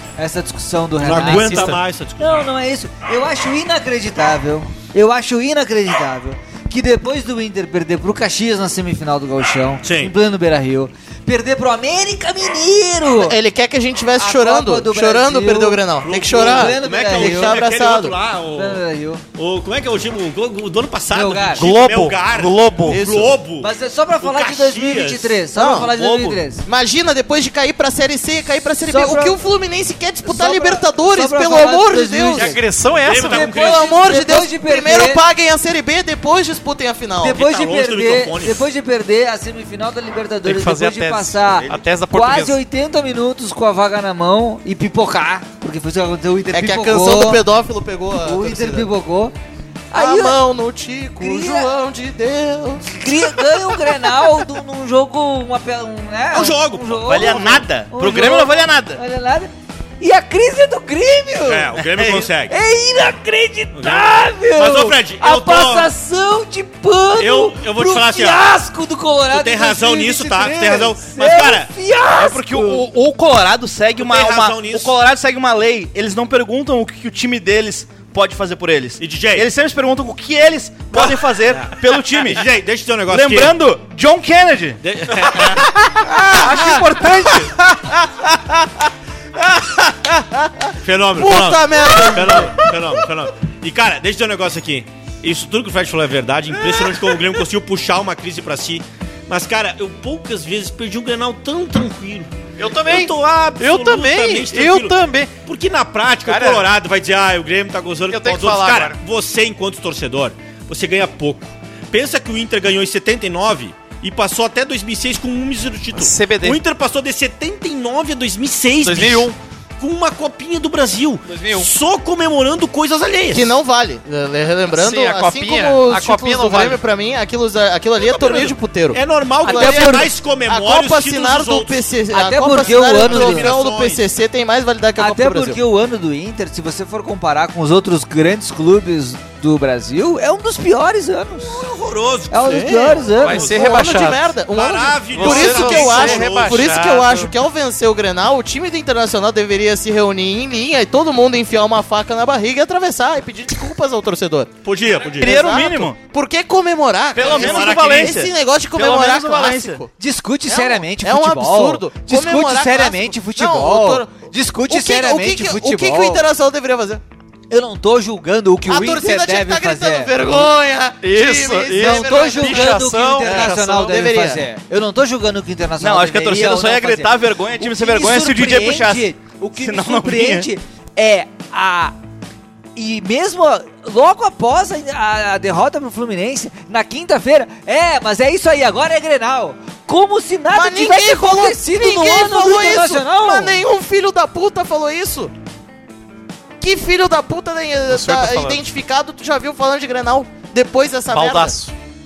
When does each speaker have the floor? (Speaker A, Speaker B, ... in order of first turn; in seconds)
Speaker A: 0.2-13.4, 14.2-17.6, 18.6-19.2, 21.1-21.7, 23.6-26.6, 28.8-29.4, 30.2-32.6, 33.3-35.2, 37.2-47.5, 48.1-49.3, 49.9-50.4, 51.2-51.7, 52.9-61.8, 62.5-72.8, 129.5-130.1, 132.1-133.5, 135.0-141.7, 142.3-143.5, 160.0-166.3, 167.5-170.5, 171.8-182.0, 182.8-193.6
Speaker B: 1.0-2.5, 9.8-10.1, 16.0-18.8, 19.4-25.4, 33.0-33.8, 37.2-38.6, 56.3-57.6, 61.5-62.6, 63.7-65.9, 67.2-68.5, 69.3-71.7, 74.0-74.9, 79.0-79.5, 80.9-83.6, 84.8-85.7, 90.8-123.5, 128.0-131.9, 132.5-134.1, 141.4-143.9, 144.5-146.7, 154.6-155.3, 157.2-158.2
Speaker C: 13.2-18.2, 22.9-23.4, 25.6-25.9, 26.6-32.6, 33.3-37.4, 46.5-48.9, 49.9-53.0, 85.4-88.4, 89.4-92.7, 123.3-135.6, 143.4-154.5, 155.2-159.9, 160.5-167.0, 168.7-174.4, 190.5-195.3, 196.6-201.6
Speaker D: 21.6-23.0, 26.1-26.3, 57.0-59.0, 61.9-62.2, 72.1-82.5, 83.1-84.8, 86.3-87.5, 155.2-156.0, 157.2-159.8, 175.8-179.1, 179.6-180.5
Speaker E: 21.7-22.9, 32.3-33.7, 40.5-42.6, 96.7-97.2, 102.6-105.3, 106.2-106.7, 108.1-109.0, 115.9-116.6, 118.8-119.3, 121.2-121.7, 124.7-126.8, 142.5-144.3, 145.1-147.3, 171.0-173.9, 197.9-198.6, 201.1-201.7